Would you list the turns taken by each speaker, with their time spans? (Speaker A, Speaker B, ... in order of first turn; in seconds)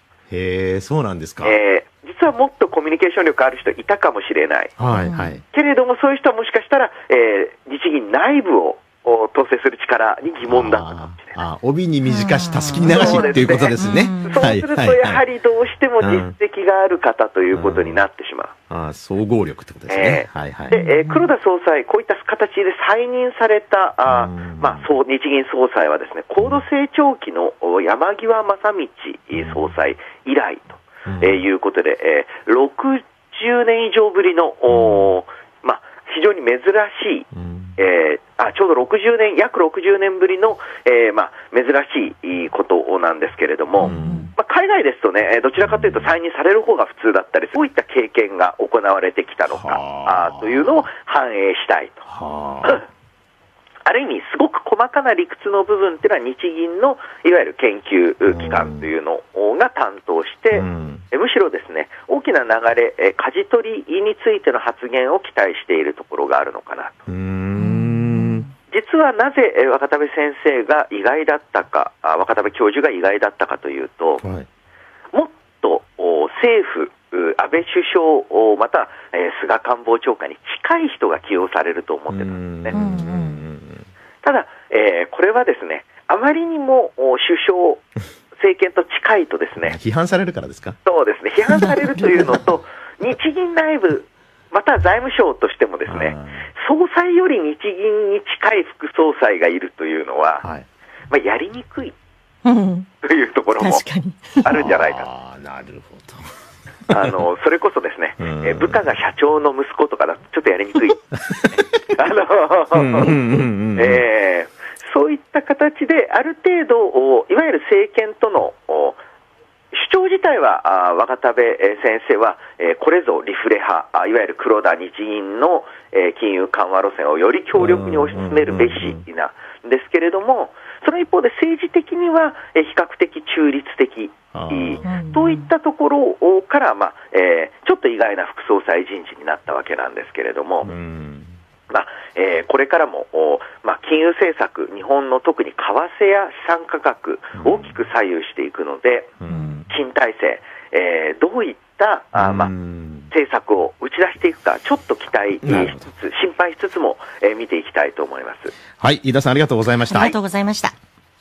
Speaker A: 0.3-1.6, 4.8-5.4, 10.5-15.3, 16.0-16.4, 17.5-18.0, 18.7-20.8, 24.1-24.9, 29.3-29.7, 31.1-31.4, 34.7-35.1, 37.4-37.8, 43.8-44.3, 45.6-46.1, 49.5-50.9, 52.1-52.8, 58.3-58.9, 60.5-61.0, 67.1-68.5, 74.2-74.5, 82.1-83.9, 89.6-90.8, 95.9-96.5, 104.5-106.3, 106.9-107.2, 108.2-108.8, 111.3-111.8, 112.7-114.0, 127.6-129.0, 134.3-134.8, 140.6-141.3, 147.4-147.8, 149.2-149.7, 152.1-153.1, 155.4-155.8, 158.8-160.2
Speaker B: 1.4-4.8, 5.5-11.4, 12.9-18.5, 19.9-52.0, 53.9-67.1, 68.7-74.2, 75.1-82.8, 84.2-89.8, 90.8-100.5, 101.1-102.0, 103.0-103.8, 104.4-105.1, 106.9-111.1, 111.9-113.2, 113.8-119.0, 119.7-140.7, 141.7-149.1, 149.7-152.5, 153.1-158.5
Speaker C: 4.9-5.3, 12.1-14.5, 20.7-21.3, 43.9-44.3, 82.7-83.4, 102.5-102.9, 103.6-104.6, 134.8-135.4, 159.9-160.8